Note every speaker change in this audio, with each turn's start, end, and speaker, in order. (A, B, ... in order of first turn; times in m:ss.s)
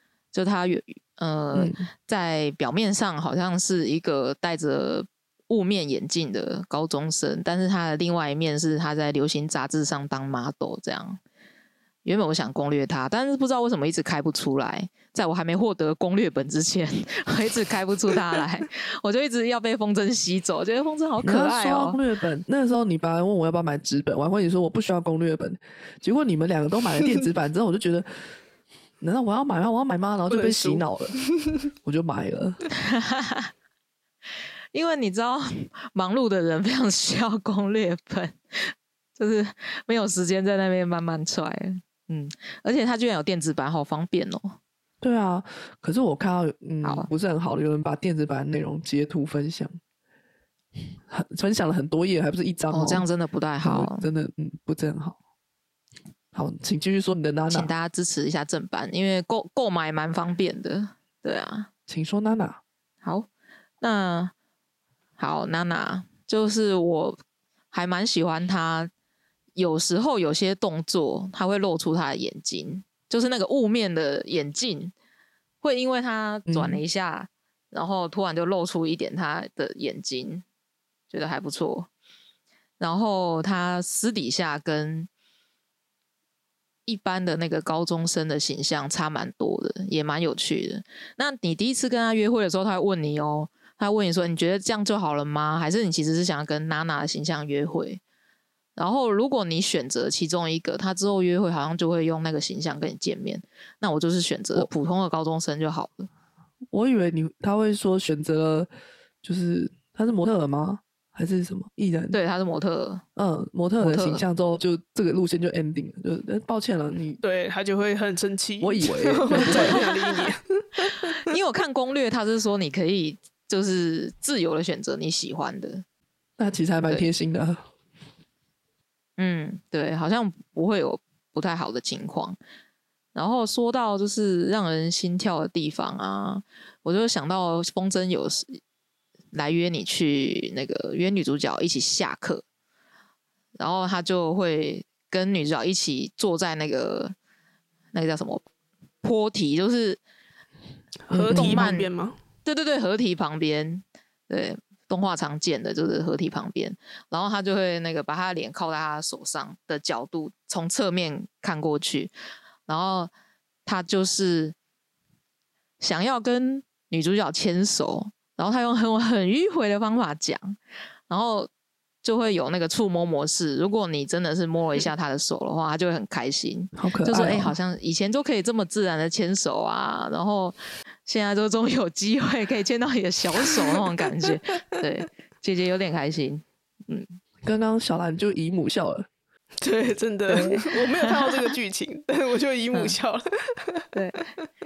0:00.3-0:11.2 A
0:01.5-0:01.9 B
0:12.0-0:22.0 A
0:21.2-0:28.1 B
0:29.0-0:31.2 B
0:30.3-0:31.6 C
0:31.8-0:32.6 B
0:32.8-0:33.5 A
0:34.7-0:44.6 A
0:45.0-0:49.8 B
0:46.8-0:47.1 A
0:51.1-0:53.1 B
0:52.7-0:54.1 A
0:53.6-0:55.2 B
0:56.3-0:57.7 B
0:57.5-1:01.7 A
1:01.9-1:02.6 B
1:03.0-1:03.3 A
1:03.8-1:04.3 A
1:05.2-1:07.2 A
1:07.7-1:08.9 A
1:09.6-1:14.9 A
1:15.6-1:20.4 A
1:16.5-1:16.8 B
1:21.1-1:21.9 A
1:22.8-1:25.1 A
1:26.9-1:38.0 A
1:38.8-1:46.1 A
1:46.7-1:48.7 B
1:49.2-1:52.2 B
1:52.1-1:53.0 A
1:53.2-1:57.2 B
1:53.8-1:54.2 A
1:57.2-2:01.3 C
1:58.6-1:59.8 B
1:59.4-1:59.9 A
2:00.8-2:05.8 A
2:06.4-2:07.6 B
2:09.2-2:12.4 A
2:13.1-2:18.6 A
2:19.3-2:22.4 A
2:23.6-2:27.2 A
2:27.9-2:28.4 A
2:29.0-2:30.0 A
2:31.1-2:32.2 C
2:31.1-2:31.7 B
2:31.3-2:31.9 A
2:32.4-2:42.1 A
2:42.7-2:43.1 A
2:43.7-2:44.6 A
2:45.8-2:50.6 A
2:51.1-2:51.5 A
2:52.0-3:07.2 A
2:56.8-2:57.6 B
3:07.4-3:09.1 B
3:09.6-3:13.9 C
3:10.3-3:11.3 A
3:13.9-3:14.3 A